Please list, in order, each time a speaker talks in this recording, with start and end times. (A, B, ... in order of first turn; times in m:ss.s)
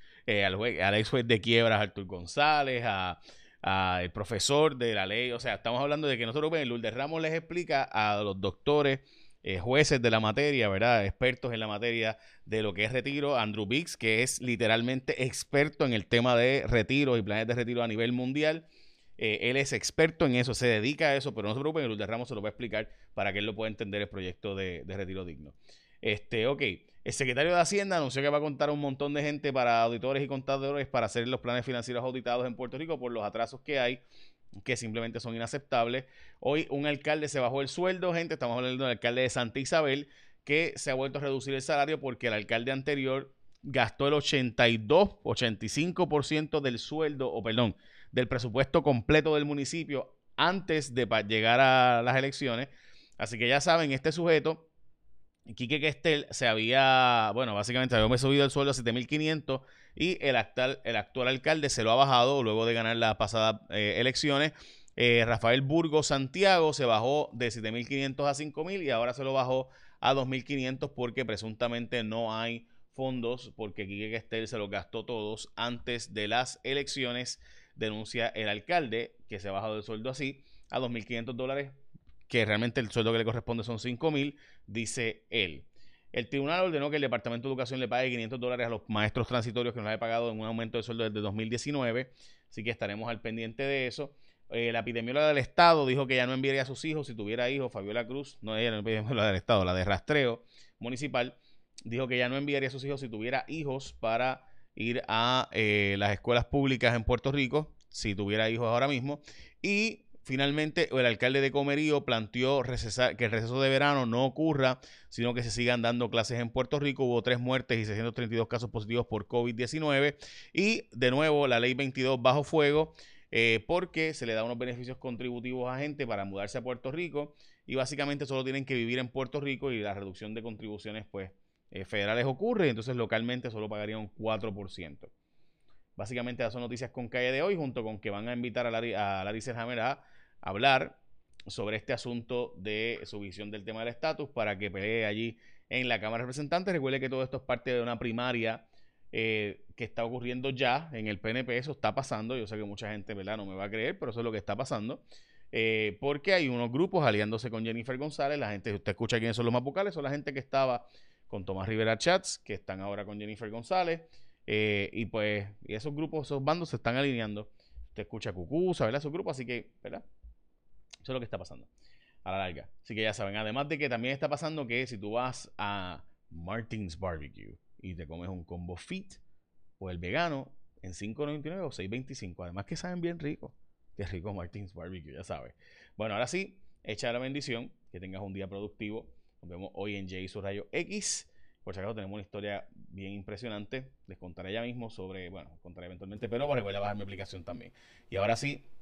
0:00.3-0:18.7 A
0:19.2-0:34.0 A
0:34.6-0:54.7 A
0:55.5-1:21.8 A
1:22.3-2:15.1 A
2:16.0-2:50.0 A
2:51.0-2:51.7 A
2:52.2-2:59.2 A
2:59.8-3:18.6 A